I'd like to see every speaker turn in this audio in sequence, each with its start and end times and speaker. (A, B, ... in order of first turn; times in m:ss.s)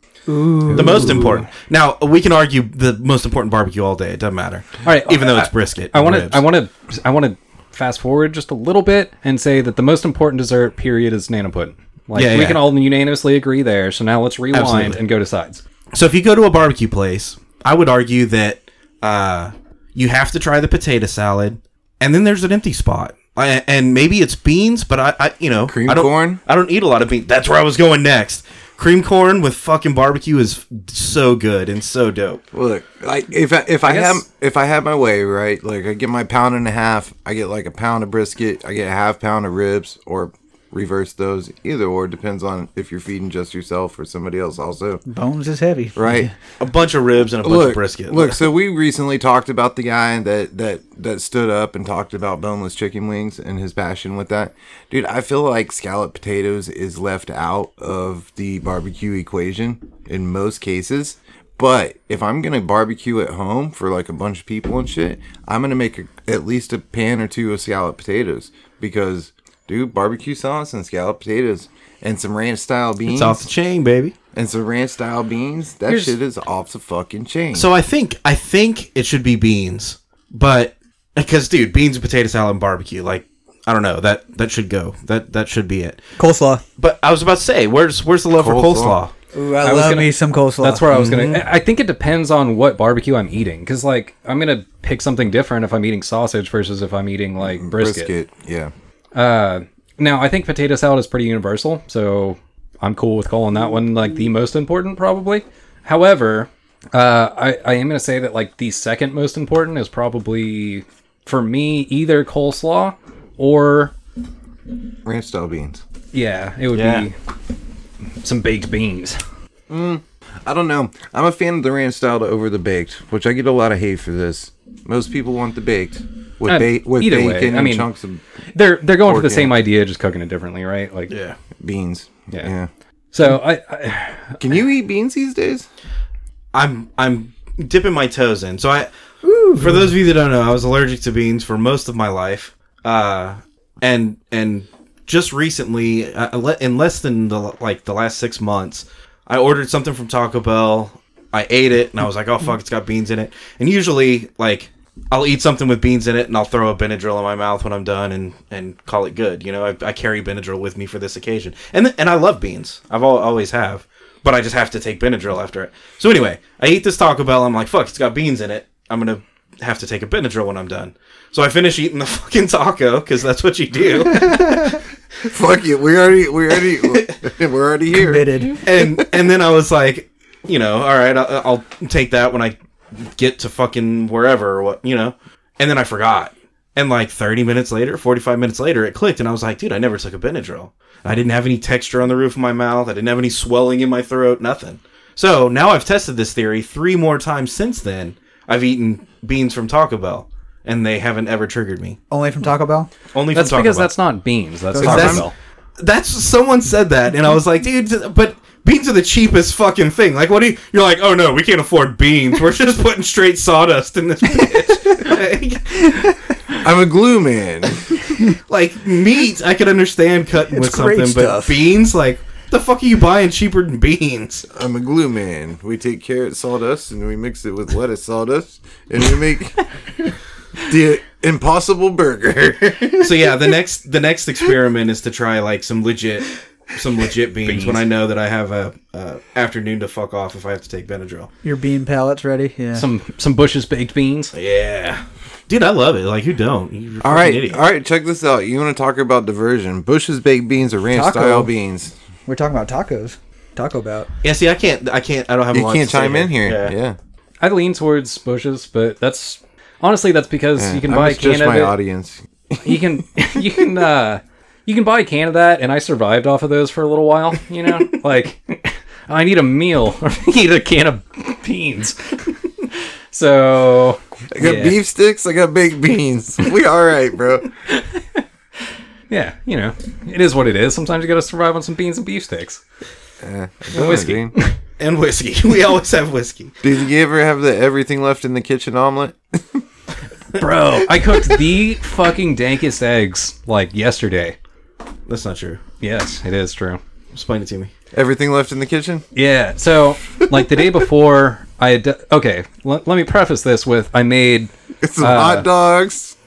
0:00.3-0:01.4 A
0:00.7-0:06.4 B
0:04.8-0:15.6 C
0:12.2-0:12.6 B
0:14.5-0:15.0 B
0:15.9-0:32.4 B
0:25.7-0:26.4 D
0:32.5-0:45.0 D
0:33.8-0:34.2 C
0:45.1-0:46.3 A
0:46.0-0:46.3 D
0:46.6-0:48.5 B
0:47.4-1:13.4 D
1:13.0-1:14.2 B
1:14.3-1:17.7 D
1:15.9-1:16.2 C
1:17.5-1:26.0 B
1:26.2-1:26.6 A
1:26.8-1:29.1 B
1:28.4-1:29.0 D
1:29.3-1:30.9 A
1:29.6-1:38.1 C
1:30.9-1:31.4 B
1:37.4-1:38.7 D
1:39.1-1:53.9 C
1:55.0-1:55.8 D
1:56.1-1:57.1 C
1:56.8-1:57.1 B
1:58.2-1:59.2 C
1:59.7-2:08.2 D
2:06.5-2:07.9 C
2:08.5-2:11.1 C
2:09.0-2:09.6 D
2:11.1-2:11.4 B
2:11.6-2:12.7 D
2:13.1-2:14.4 C
2:14.4-2:15.7 D
2:16.5-2:18.9 B
2:19.2-2:19.9 A
2:19.5-2:54.8 B
2:55.2-2:59.1 D
2:57.9-2:58.6 A
2:58.6-3:22.0 B
3:22.1-3:22.9 A
3:23.1-3:23.9 B
3:23.3-3:25.3 C
3:24.7-3:25.3 A
3:24.8-3:25.3 B
3:25.8-3:36.2 B
3:36.6-3:38.0 D
3:38.2-3:44.5 B
3:40.5-3:41.7 A
3:44.5-3:49.6 D
3:50.6-3:53.2 D
3:53.0-4:01.3 B
3:57.5-3:57.8 C
4:01.4-4:02.9 A
4:02.8-4:04.3 C
4:04.3-4:07.6 B
4:07.0-4:11.9 D
4:10.9-4:11.5 A
4:12.3-4:14.1 A
4:14.2-4:16.8 B
4:15.5-4:17.0 D
4:17.4-4:21.8 C
4:20.6-4:22.6 D
4:22.6-4:32.2 C
4:33.1-4:34.8 C
4:34.3-4:37.5 D
4:37.7-4:38.2 C
4:39.1-4:42.6 C
4:43.2-4:44.3 D
4:43.7-4:44.6 C
4:44.8-4:46.6 B
4:46.6-4:49.6 D
4:50.3-4:54.4 C
4:55.1-4:55.6 B
4:55.8-4:56.8 C
4:57.1-4:57.7 B
4:57.9-4:59.0 D
4:59.1-5:05.5 C
5:04.8-5:06.2 D